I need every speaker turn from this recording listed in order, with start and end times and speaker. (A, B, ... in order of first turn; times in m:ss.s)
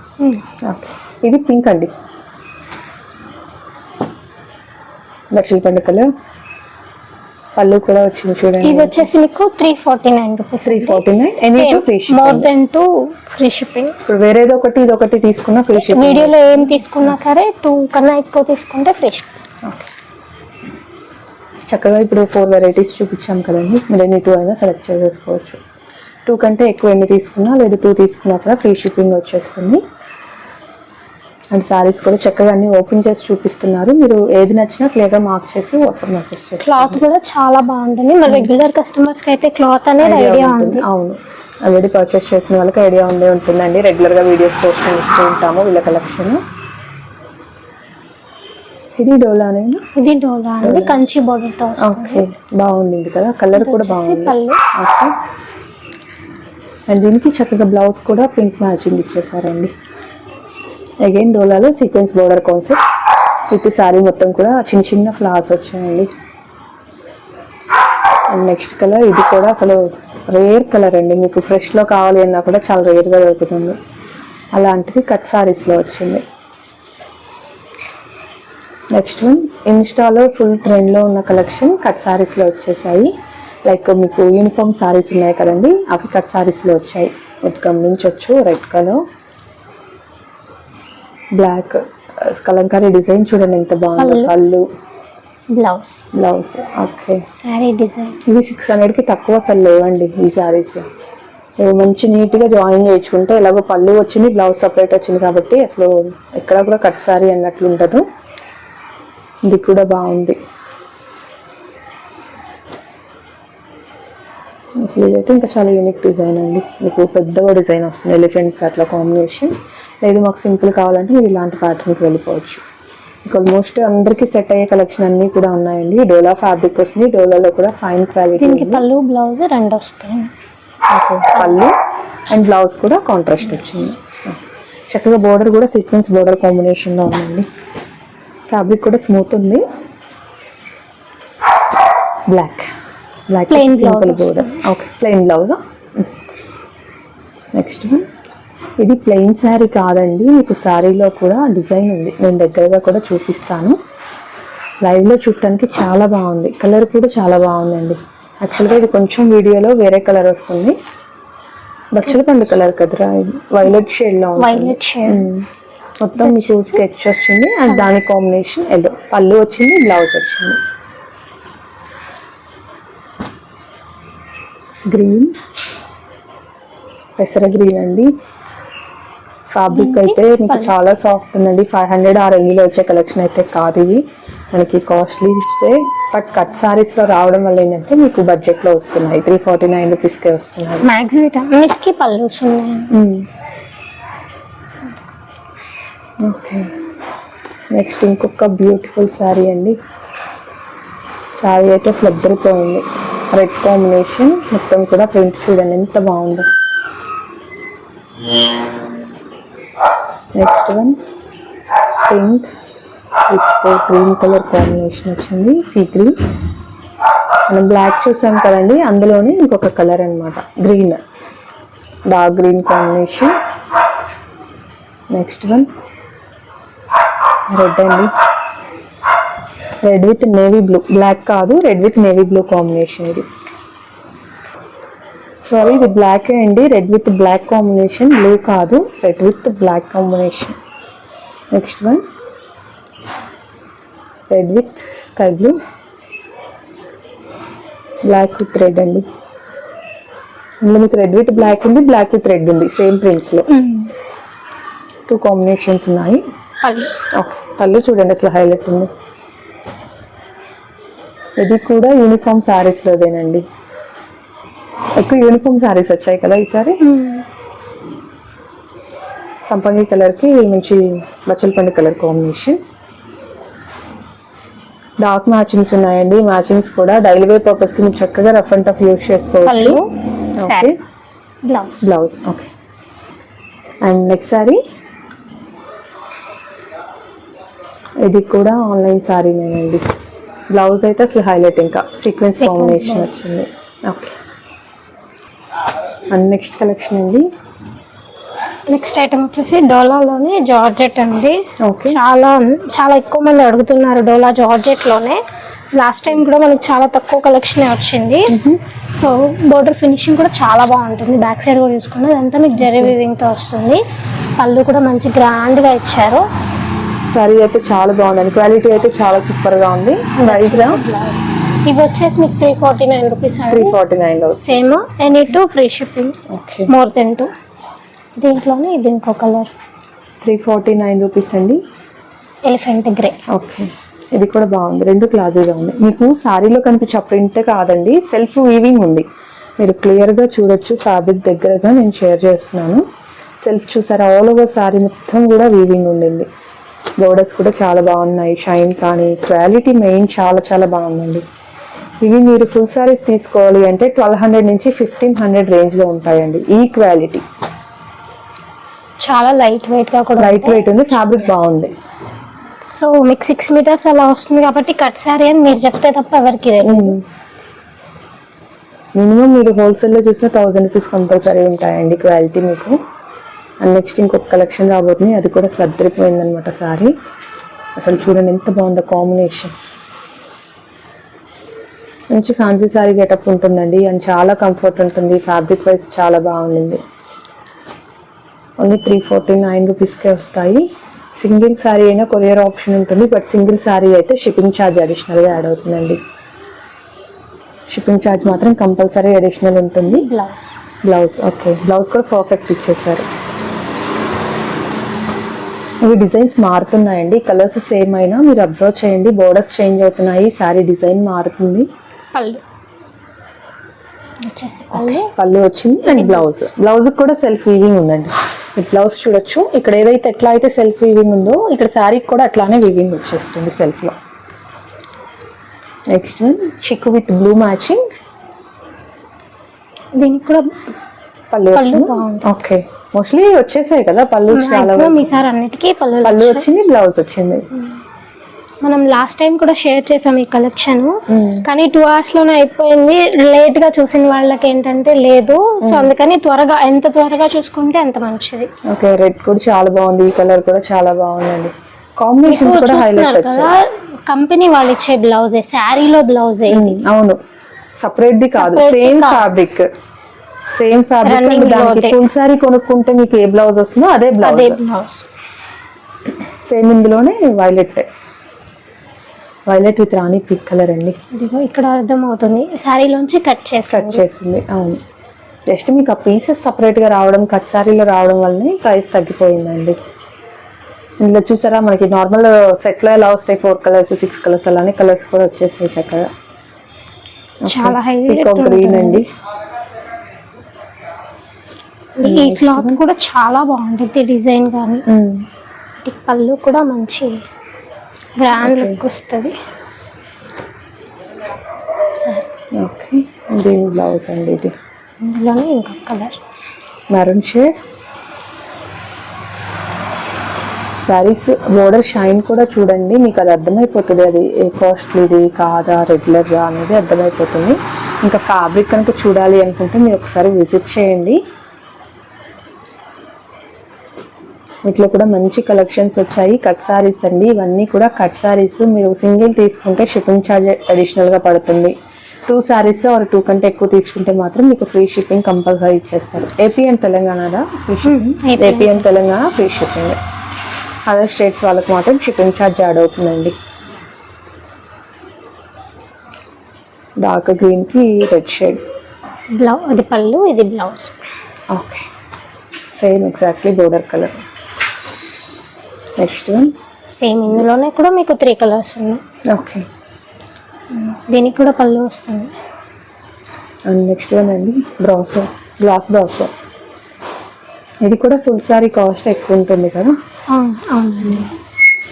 0:00.6-0:01.9 A
0:05.3-0:06.1 A
0:07.6-0:09.1 A
0:08.6-0:14.0 B
0:10.6-0:12.5 A
0:14.1-0:17.1 A
0:15.7-0:19.3 B
0:21.7-0:25.6 A
0:26.3-0:29.8 A
0:31.5-0:37.0 A
0:36.6-0:40.8 B
0:40.0-0:46.4 A
0:49.0-0:49.9 A
0:49.9-0:52.2 B
0:50.6-0:51.0 A
0:51.8-0:55.1 A
0:53.5-0:54.6 B
0:56.9-0:59.7 A
1:01.0-1:02.8 A
1:03.5-1:06.1 A
1:08.3-1:13.8 A
1:14.5-1:16.2 A
1:18.9-1:23.1 A
1:23.6-1:29.0 A
1:31.4-1:34.6 A
1:34.0-1:34.3 B
1:35.5-1:36.0 B
1:36.1-1:37.2 A
1:37.3-1:38.2 B
1:38.2-1:40.9 A
1:41.6-1:48.0 A
1:49.4-1:50.4 A
1:54.8-2:02.6 A
2:03.2-2:08.8 A
2:08.4-2:10.3 B
2:10.9-2:11.7 A
2:12.3-2:17.5 A
2:13.6-2:13.9 B
2:18.5-2:19.6 A
2:22.3-2:22.7 A
2:23.3-2:26.1 A
2:23.5-2:24.6 B
2:27.5-2:28.0 A
2:28.8-2:33.8 A
2:34.8-2:40.8 A
2:41.9-2:45.4 A
2:44.4-2:45.3 B
2:46.0-2:50.6 A
2:46.2-2:46.8 B
2:54.9-2:55.3 A
2:57.2-2:58.1 A
2:59.5-3:10.9 A
2:59.7-3:00.7 B
3:10.8-3:12.9 B
3:12.9-3:13.2 A
3:16.2-3:16.7 A
3:17.7-3:19.8 A
3:21.3-3:26.5 A
3:30.4-3:31.0 A
3:32.1-3:32.5 A
3:33.3-3:36.2 A
3:37.5-3:41.0 A
3:42.1-3:43.4 A
3:45.1-3:45.7 A
3:47.5-3:48.1 A
3:49.8-3:53.3 A
3:55.4-4:00.6 A
4:01.5-4:02.0 A
4:04.3-4:05.6 A
4:08.0-4:09.0 A
4:10.6-4:13.5 A
4:13.5-4:13.9 B
4:15.1-4:16.2 A
4:16.6-4:16.9 B
4:17.1-4:18.9 A
4:21.4-4:23.4 A
4:25.0-4:26.9 A
4:26.8-4:27.2 B
4:29.4-4:32.6 A
4:35.0-4:39.8 A
4:39.4-4:40.7 B
4:40.4-4:40.8 A
4:41.4-4:41.9 B
4:41.8-4:42.5 A
4:43.8-4:44.6 A
4:48.0-4:49.8 A
4:50.5-4:54.1 A
4:52.4-4:53.1 B
4:56.1-4:57.3 A
4:58.7-5:05.2 B
5:01.6-5:02.0 A
5:05.7-5:08.4 B
5:08.3-5:08.6 A
5:08.9-5:13.8 B
5:12.7-5:12.9 A
5:14.4-5:16.2 B
5:17.1-5:20.8 A
5:20.2-5:23.8 B
5:23.5-5:24.8 A
5:24.4-5:27.3 B
5:26.3-5:26.7 A
5:28.2-5:29.5 B
5:30.2-5:31.6 A
5:32.4-5:33.2 B
5:33.3-5:39.1 A
5:39.6-5:42.8 A
5:43.4-5:46.3 A
5:47.0-5:51.2 A
5:52.0-5:57.2 A
5:59.0-6:01.3 B
6:00.2-6:01.7 A
6:02.6-6:07.0 B
6:06.6-6:07.0 A
6:08.9-6:12.8 A
6:13.6-6:16.9 A
6:17.8-6:19.5 A
6:22.1-6:26.8 A
6:28.6-6:36.0 A
6:37.7-6:40.1 A
6:39.9-6:40.6 B
6:40.8-6:43.1 A
6:45.8-6:51.7 A
6:52.1-6:52.4 B
6:54.2-6:55.1 B
6:54.7-7:03.9 A
6:55.8-6:56.5 B
7:05.9-7:07.9 A
7:09.9-7:10.5 B
7:11.3-7:15.2 A
7:11.5-7:12.2 B
7:14.3-7:16.5 B
7:16.0-7:17.4 A
7:18.6-7:28.5 B
7:21.1-7:21.4 A
7:25.6-7:25.9 A
7:28.7-7:33.5 A
7:32.2-7:36.8 B
7:36.5-7:37.2 A
7:37.8-7:39.7 A
7:38.3-7:39.3 B
7:40.6-7:44.6 A
7:41.0-7:42.0 B
7:44.2-7:45.1 B
7:46.5-7:47.9 A
7:49.5-7:51.0 A
7:51.1-7:54.0 B
7:53.7-7:54.8 A
7:55.5-7:59.8 A
8:01.0-8:06.1 A
8:07.4-8:09.1 A
8:07.5-8:09.0 B
8:12.0-8:14.8 B
8:12.0-8:12.8 A
8:14.9-8:15.2 A
8:15.8-8:17.2 B
8:18.2-8:19.4 B
8:18.4-8:18.8 A
8:21.9-8:22.2 B
8:22.6-8:24.5 A
8:25.0-8:26.2 B
8:26.9-8:27.5 A
8:30.8-8:41.2 A
8:44.6-8:51.7 A
8:52.3-9:00.0 A
8:57.8-8:58.9 B
9:00.9-9:03.4 A
9:07.0-9:08.6 A
9:09.4-9:10.9 B
9:11.5-9:11.9 A
9:12.7-9:14.2 A
9:16.0-9:16.5 A
9:16.8-9:19.0 B
9:19.3-9:19.6 A
9:20.7-9:22.4 B
9:23.7-9:26.3 A
9:27.8-9:29.9 A
9:30.3-9:31.3 B